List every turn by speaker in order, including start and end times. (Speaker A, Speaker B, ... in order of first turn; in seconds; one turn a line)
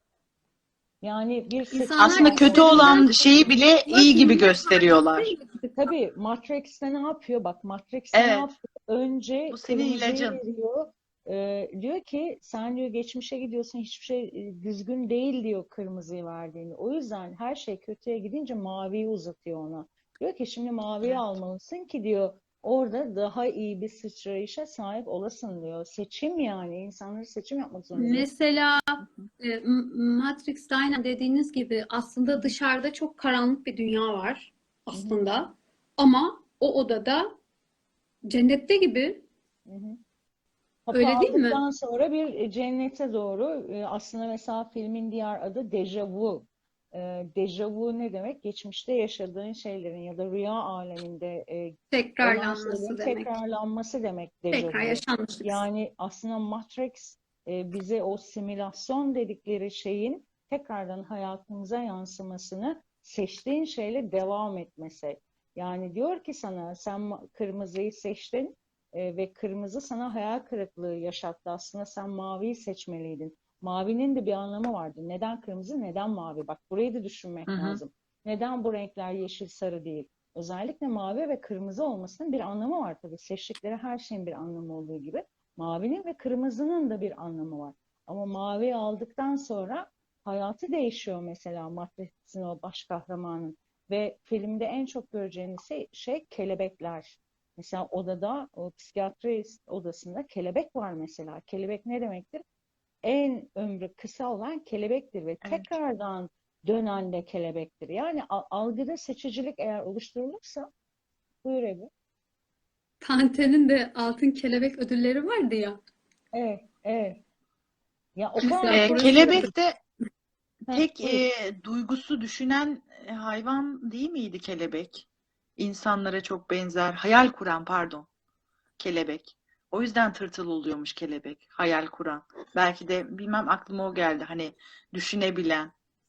Speaker A: 1.0-3.1
Speaker B: 1.7-5.9
Speaker C: 2.0-5.3
Speaker A: 5.8-28.3
Speaker C: 8.1-8.5
Speaker C: 9.5-10.4
Speaker B: 27.9-37.3
Speaker A: 34.9-35.2
Speaker B: 38.3-39.2
Speaker A: 39.6-40.0
Speaker A: 40.9-102.4
Speaker B: 40.9-41.6
Speaker B: 51.9-53.3
Speaker B: 54.5-55.6
Speaker C: 77.5-77.8
Speaker A: 103.0-110.7
Speaker C: 105.4-105.7
Speaker A: 111.4-111.9
Speaker B: 113.0-115.8
Speaker A: 116.3-117.2
Speaker A: 118.2-119.5
Speaker B: 118.4-119.5
Speaker C: 118.7-119.8
Speaker A: 120.7-121.2
Speaker C: 120.7-125.0
Speaker C: 125.6-128.1
Speaker C: 128.8-135.7